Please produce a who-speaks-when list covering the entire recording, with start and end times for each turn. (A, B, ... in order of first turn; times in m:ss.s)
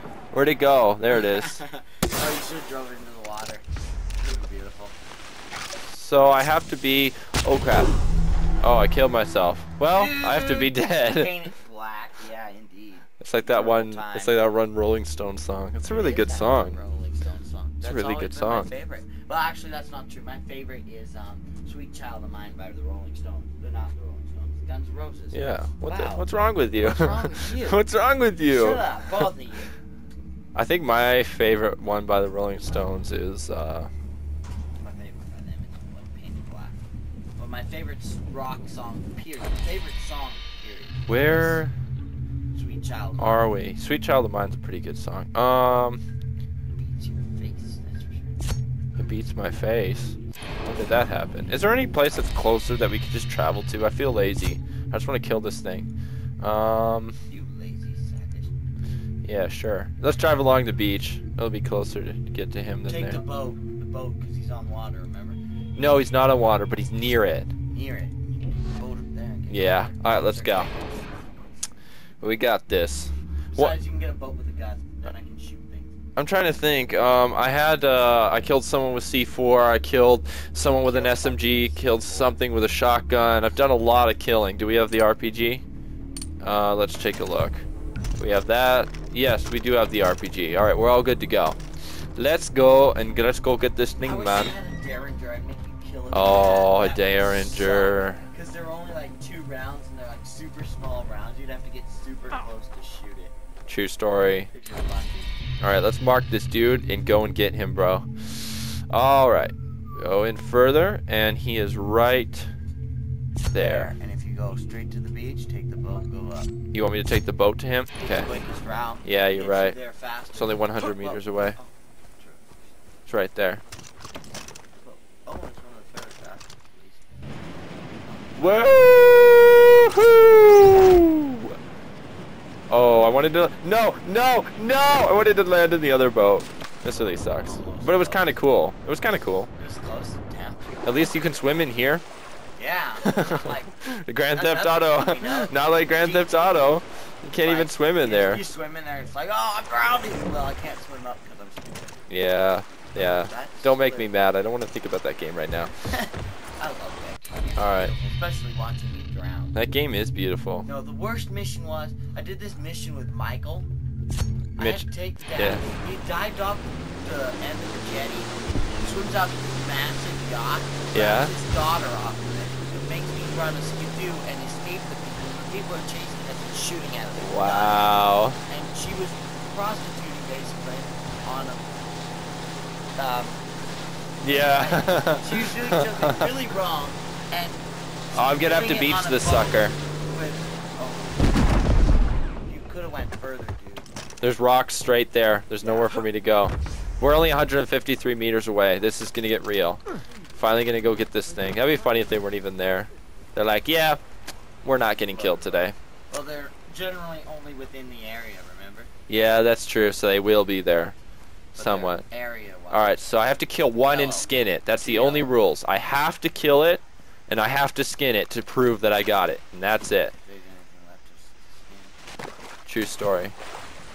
0:00.3-0:01.6 A
0:01.1-0:05.0 B
0:05.9-0:07.9 A
0:08.6-0:11.4 A
0:09.9-0:14.4 B
0:13.2-0:16.8 A
0:15.8-0:27.8 B
0:17.8-0:18.7 A
0:25.3-0:29.3 A
0:28.5-0:29.7 B
0:30.5-0:33.9 A
0:34.8-0:36.8 B
0:37.4-0:41.6 B
0:41.1-0:41.7 A
0:42.5-0:43.5 B
0:43.2-0:46.0 A
0:46.7-0:48.4 B
0:49.0-0:55.9 A
0:56.4-0:57.2 A
0:57.3-0:58.5 B
0:59.2-1:03.2 A
1:02.8-1:05.4 B
1:05.8-1:07.5 A
1:07.7-1:11.2 B
1:09.5-1:10.7 A
1:12.2-1:13.7 A
1:13.5-1:15.9 B
1:16.2-1:25.6 A
1:20.8-1:22.4 B
1:26.4-1:27.6 A
1:28.2-1:31.6 A
1:32.2-1:34.5 A
1:34.0-1:43.3 B
1:36.1-1:38.2 A
1:43.7-1:44.5 A
1:44.5-1:45.4 B
1:45.6-1:52.5 A
1:53.5-1:53.9 A
1:53.5-1:56.5 B
1:56.7-1:58.3 A
1:58.0-2:02.7 B
1:59.0-1:59.8 A
2:00.3-2:01.6 A
2:03.1-2:03.6 A
2:04.8-2:07.3 B
2:08.2-2:08.7 B
2:08.4-2:11.6 A
2:12.7-2:19.5 A
2:17.4-2:18.2 B
2:19.6-2:21.0 B
2:20.8-2:22.0 A
2:22.6-2:23.8 B
2:23.1-2:28.4 A
2:24.3-2:26.8 B
2:27.4-2:32.0 B
2:32.1-2:35.7 A
2:33.0-2:34.1 B
2:35.9-2:39.6 B
2:37.6-2:37.9 A
2:39.5-2:40.7 A
2:40.6-2:43.7 B
2:44.6-2:57.8 B
2:44.6-2:45.6 A
2:50.9-2:51.3 A
2:57.2-2:58.4 A
2:58.5-3:01.7 B
3:03.0-3:03.5 B
3:04.2-3:06.3 A
3:04.2-3:11.6 B
3:08.1-3:09.8 A
3:12.4-3:13.9 B
3:14.2-3:19.8 A
3:15.6-3:16.0 B
3:20.4-3:24.0 A
3:24.6-3:25.8 A
3:25.0-3:28.9 B
3:29.1-3:30.9 A
3:31.5-3:32.0 A
3:31.6-3:33.2 B
3:32.7-3:40.1 A
3:33.9-3:35.3 B
3:40.1-3:42.1 B
3:42.7-3:43.3 A